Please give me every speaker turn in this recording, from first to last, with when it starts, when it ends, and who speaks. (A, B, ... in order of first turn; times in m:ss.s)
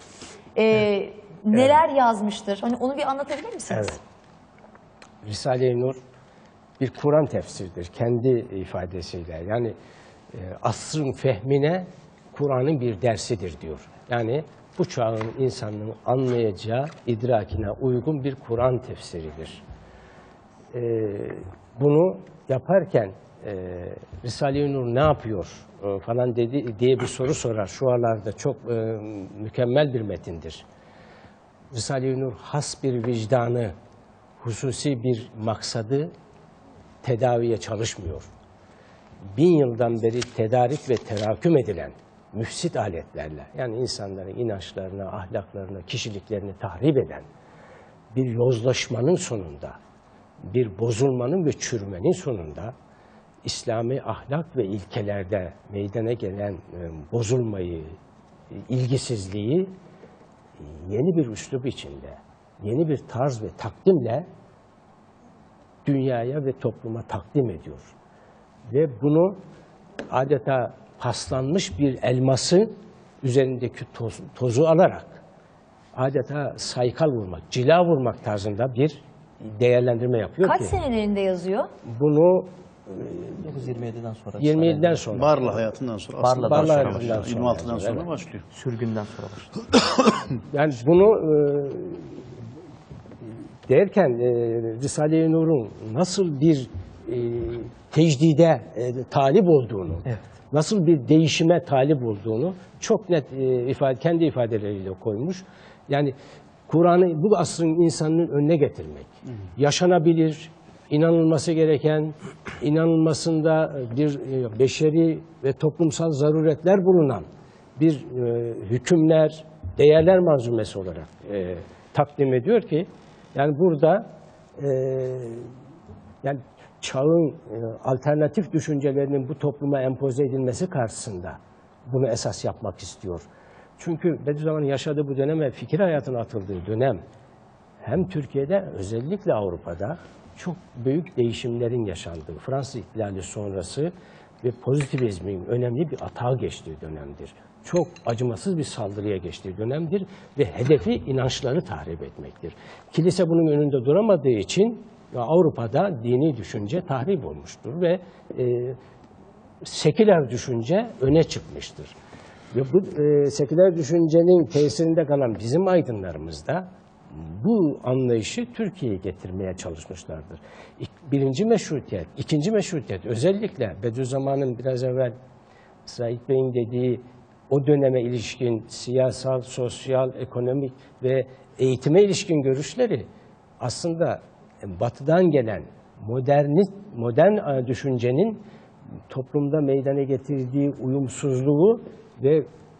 0:00.5-0:04.0 A
0:01.5-0:01.8 B
0:03.7-0:04.0 B
0:05.2-0:06.0 B
0:06.8-0:09.7 B
0:10.3-0:19.6 B
0:20.7-0:30.6 B
0:31.7-0:33.7 B
0:34.4-0:36.1 B
0:37.0-0:38.3 B
0:39.3-0:47.3 B
0:48.1-0:49.8 B
0:50.4-0:52.7 B
0:53.4-0:57.9 B
0:58.5-0:59.7 B
1:00.6-1:04.3 B
1:05.8-1:07.9 B
1:08.7-1:09.4 B
1:10.1-1:15.2 B
1:15.9-1:20.8 B
1:20.4-1:21.7 A
1:21.9-1:23.4 B
1:23.4-1:25.0 C
1:24.4-1:25.5 B
1:25.1-1:28.4 D
1:26.2-1:27.2 C
1:26.4-1:28.1 B
1:28.5-1:29.6 C
1:30.5-1:32.2 B
1:33.7-1:46.1 B
1:46.7-1:57.2 B
1:57.8-2:04.1 B
2:04.6-2:05.5 B
2:06.2-2:13.2 B
2:13.8-2:17.0 B
2:17.8-2:38.8 B
2:39.6-2:41.9 B
2:42.5-2:55.2 B
2:55.8-3:03.0 B
3:03.6-3:08.4 B
3:09.1-3:12.4 B